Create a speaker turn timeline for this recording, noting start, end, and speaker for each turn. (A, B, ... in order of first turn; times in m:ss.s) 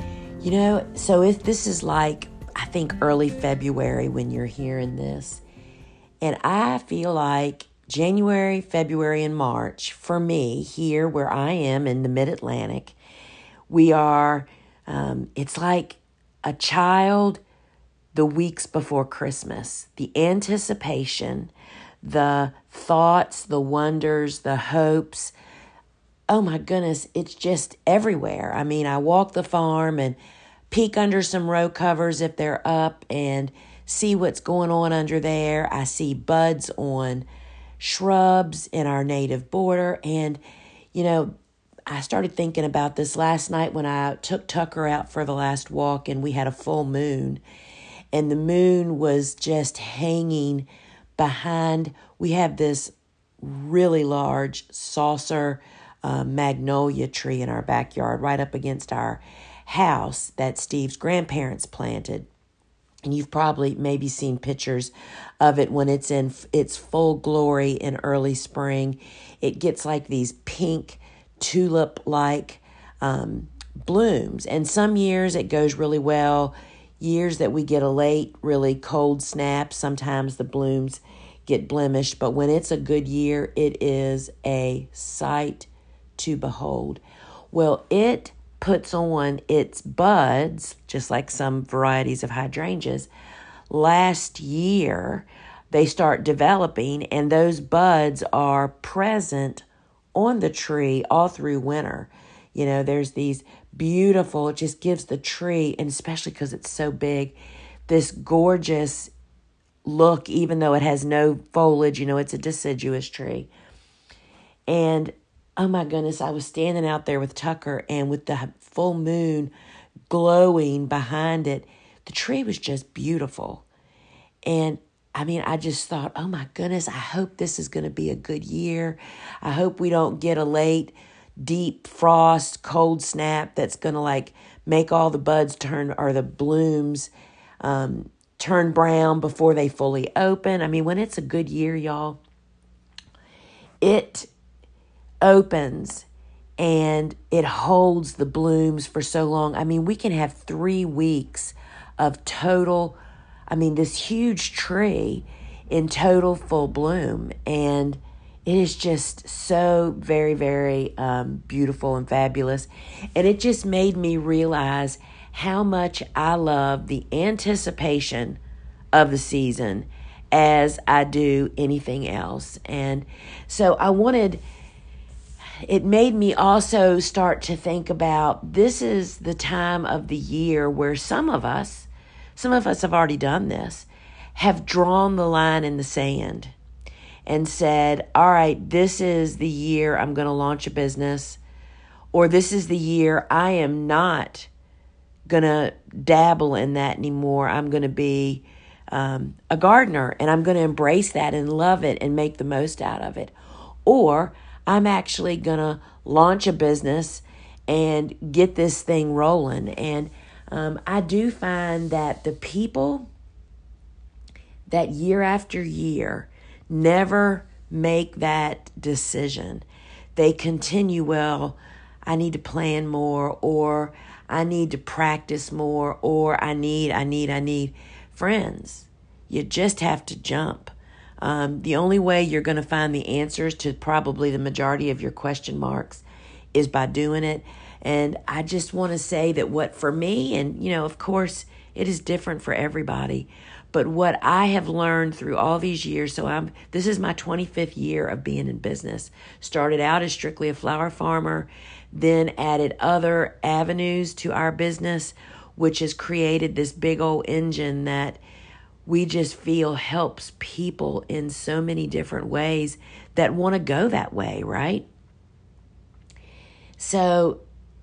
0:00.4-0:05.4 A
0:06.2-0:12.9 A
0:13.7-0:17.4 A
0:18.1-0:21.5 A
0:22.0-0:25.3 A
0:26.3-0:30.2 A
0:30.7-0:37.2 A
0:37.8-0:40.4 A
0:40.9-0:41.3 A
0:41.9-0:47.4 A
0:48.1-1:02.3 A
1:03.0-1:33.1 A
1:33.7-1:39.6 A
1:40.2-1:47.4 A
1:47.9-1:49.1 A
1:49.8-1:53.5 A
1:54.7-1:59.5 A
2:00.1-2:03.6 A
2:04.4-2:17.1 A
2:17.6-2:22.2 A
2:23.8-2:24.3 A
2:25.2-2:26.0 A
2:26.6-2:33.0 A
2:33.5-2:48.4 A
2:48.9-2:54.4 A
2:55.6-3:06.5 A
3:07.2-3:11.4 A
3:12.1-3:14.5 A
3:15.3-3:23.3 A
3:23.8-3:33.1 A
3:34.7-3:39.6 A
3:40.2-4:18.2 A
4:18.8-4:24.9 A
4:26.8-4:27.4 A